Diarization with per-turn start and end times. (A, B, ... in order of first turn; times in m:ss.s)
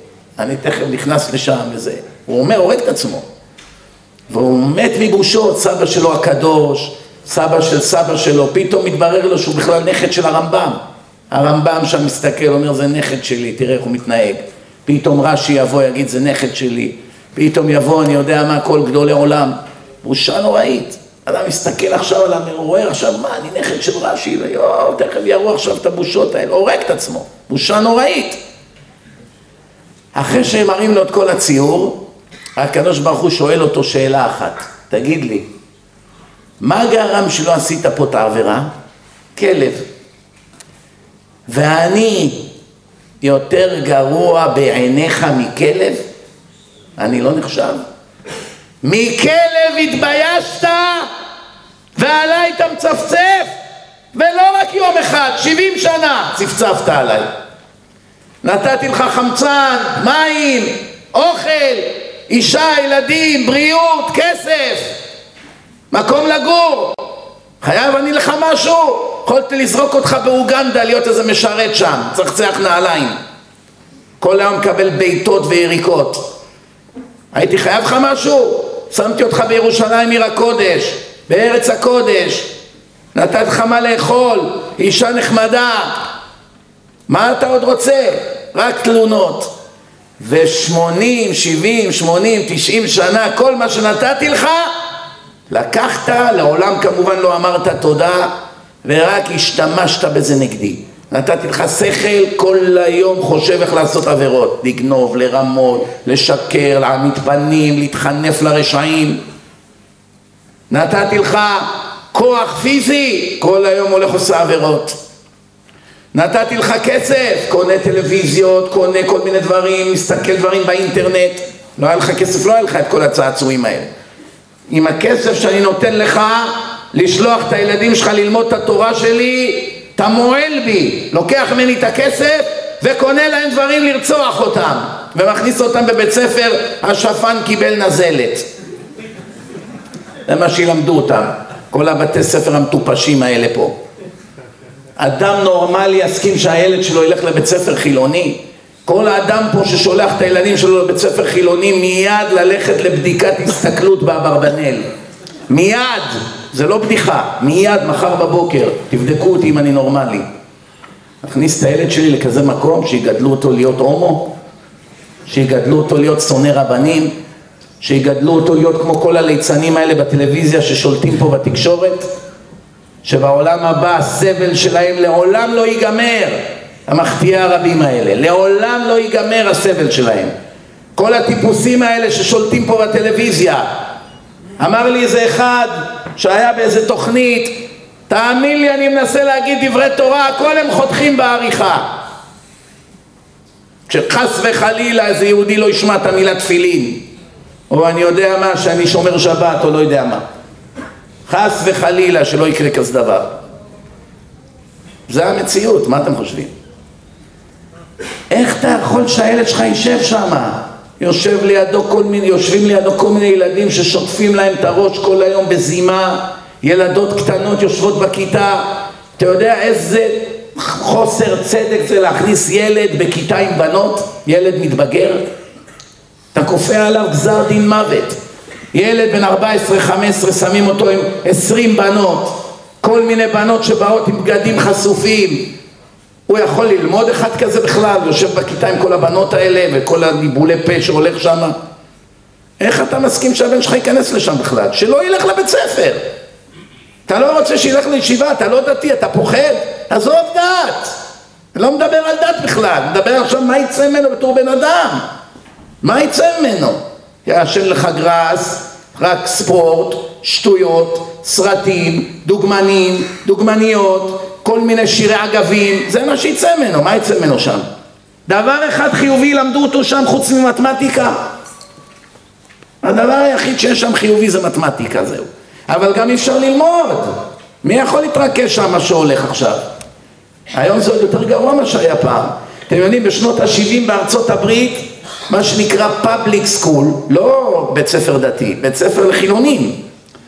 0:00.4-0:03.2 A
0:04.3-0:10.8 A
0:11.3-0:28.4 A
0:30.1-0:32.0 A
0:32.6-0:35.5 A
0:36.6-0:38.7 A
0:39.3-0:39.8 A
0:41.5-0:42.5 A
0:43.2-0:46.0 A
0:47.0-0:47.8 A
0:48.8-0:51.1 A
0:52.0-0:53.5 A
0:54.1-0:57.3 A
0:58.4-1:05.0 A
1:05.9-1:07.0 A
1:07.6-1:13.1 A
1:14.2-1:16.4 A
1:17.3-1:22.5 A
1:23.1-1:26.1 A
1:27.1-1:29.5 A
1:30.2-1:34.7 A
1:35.5-1:38.3 A
1:38.8-1:49.2 A
1:50.7-1:55.0 A
1:56.1-2:03.9 A
2:04.7-2:18.5 A
2:20.3-2:23.7 A
2:25.0-2:34.8 A
2:35.5-2:40.2 A
2:41.2-2:44.3 A
2:45.3-2:47.1 A
2:47.8-2:52.1 A
2:53.0-3:00.3 A
3:01.0-3:03.7 A
3:04.6-3:11.9 A
3:13.9-3:17.1 A
3:17.7-3:20.2 A
3:21.3-3:23.3 A
3:25.1-3:26.5 A
3:28.3-3:45.3 A
3:46.3-3:48.2 A
3:48.7-3:55.6 A
3:56.3-4:01.6 A
4:02.6-4:06.0 A
4:07.1-4:11.0 A
4:11.5-4:15.0 A
4:15.8-4:27.6 A
4:28.3-4:31.2 A
4:32.8-4:39.6 A
4:40.5-4:49.8 A